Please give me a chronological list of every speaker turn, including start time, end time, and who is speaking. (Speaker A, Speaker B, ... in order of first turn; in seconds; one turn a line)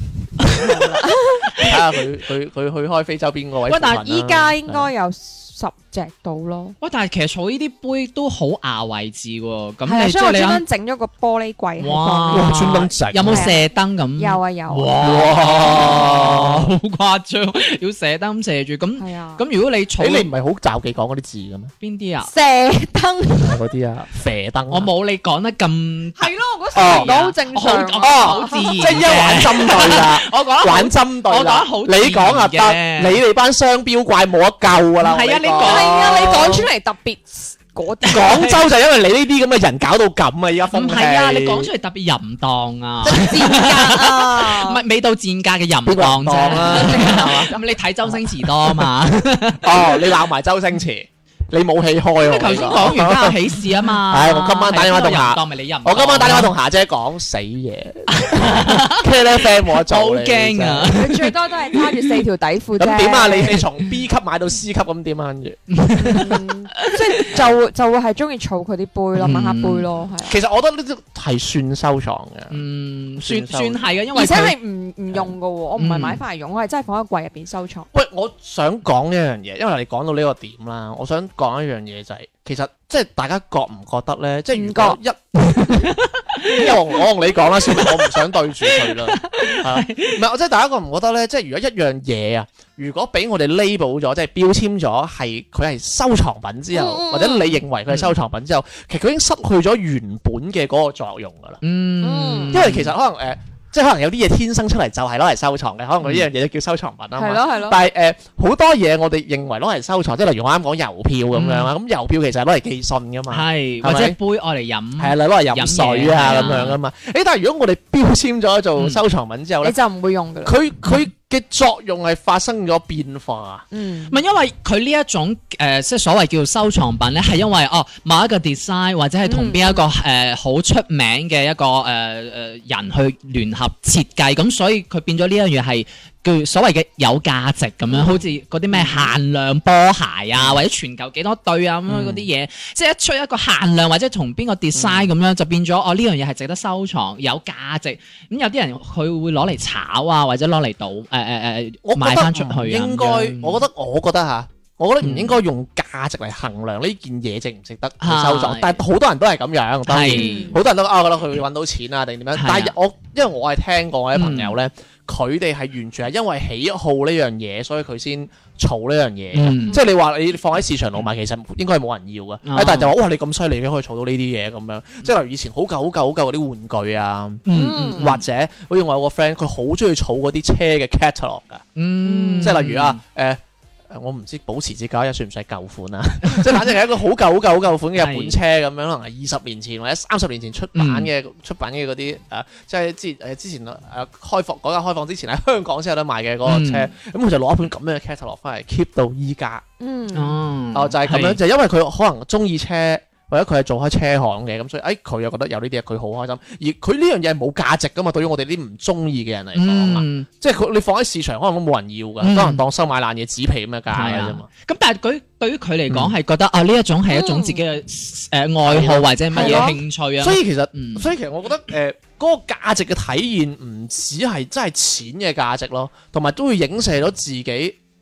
Speaker A: 0.4-1.7
Speaker B: 1.6-4.9
Speaker C: 3.7-4.0
Speaker A: 4.0-6.8
Speaker C: 6.8-10.6
Speaker A: 9.8-15.1
Speaker C: 11.8-20.3
Speaker B: 12.3-13.5
Speaker B: 15.0-16.7
Speaker A: 19.0-19.4
Speaker B: 20.0-21.7
Speaker C: 21.8-22.3
Speaker A: 22.2-23.6
Speaker B: 23.4-24.9
Speaker C: 24.7-33.2
Speaker A: 26.2-28.8
Speaker B: 26.7-27.1
Speaker B: 28.0-36.7
Speaker C: 35.0-36.6
Speaker A: 35.6-38.5
Speaker C: 38.1-38.6
Speaker B: 38.1-41.7
Speaker C: 40.7-50.1
Speaker A: 43.0-44.8
Speaker B: 45.9-47.5
Speaker A: 46.5-47.6
Speaker B: 48.1-48.9
Speaker B: 49.6-61.0
Speaker C: 52.2-56.5
Speaker A: 52.3-53.0
Speaker C: 58.1-59.2
Speaker C: 59.9-61.3
Speaker A: 60.9-63.6
Speaker B: 62.8-66.3
Speaker C: 65.7-67.2
Speaker A: 65.9-70.4
Speaker C: 69.2-69.9
Speaker B: 70.3-72.6
Speaker C: 72.5-74.5
Speaker B: 73.2-73.8
Speaker A: 74.1-77.9
Speaker C: 75.8-76.2
Speaker B: 77.9-101.6
Speaker A: 84.5-85.0
Speaker C: 85.4-90.2
Speaker A: 96.7-97.6
Speaker C: 101.6-102.9
Speaker A: 102.0-102.6
Speaker B: 102.5-114.2
Speaker A: 107.2-107.8
Speaker C: 111.3-111.7
Speaker C: 113.3-116.8
Speaker B: 115.0-119.8
Speaker A: 119.6-120.6
Speaker B: 120.4-123.7
Speaker A: 123.7-124.2
Speaker C: 124.1-153.7
Speaker A: 129.2-129.8
Speaker B: 138.7-139.1
Speaker B: 141.9-142.3
Speaker B: 144.8-145.1
Speaker B: 151.8-181.7
Speaker C: 155.0-155.4
Speaker C: 158.0-158.8
Speaker C: 159.9-160.6
Speaker A: 160.1-160.6
Speaker C: 162.3-162.7
Speaker C: 164.2-164.6
Speaker C: 169.3-169.8
Speaker C: 172.4-172.9
Speaker C: 177.5-178.2
Speaker A: 177.5-178.1
Speaker C: 181.8-183.0
Speaker A: 182.0-182.5
Speaker B: 182.4-199.6
Speaker C: 188.0-188.4
Speaker C: 190.8-191.1
Speaker C: 196.4-196.9
Speaker A: 199.8-200.4
Speaker C: 200.1-201.4
Speaker B: 200.7-214.5
Speaker C: 209.6-210.3
Speaker C: 212.2-212.6
Speaker C: 213.9-221.1
Speaker A: 217.1-217.6
Speaker B: 218.6-227.8
Speaker A: 219.3-219.8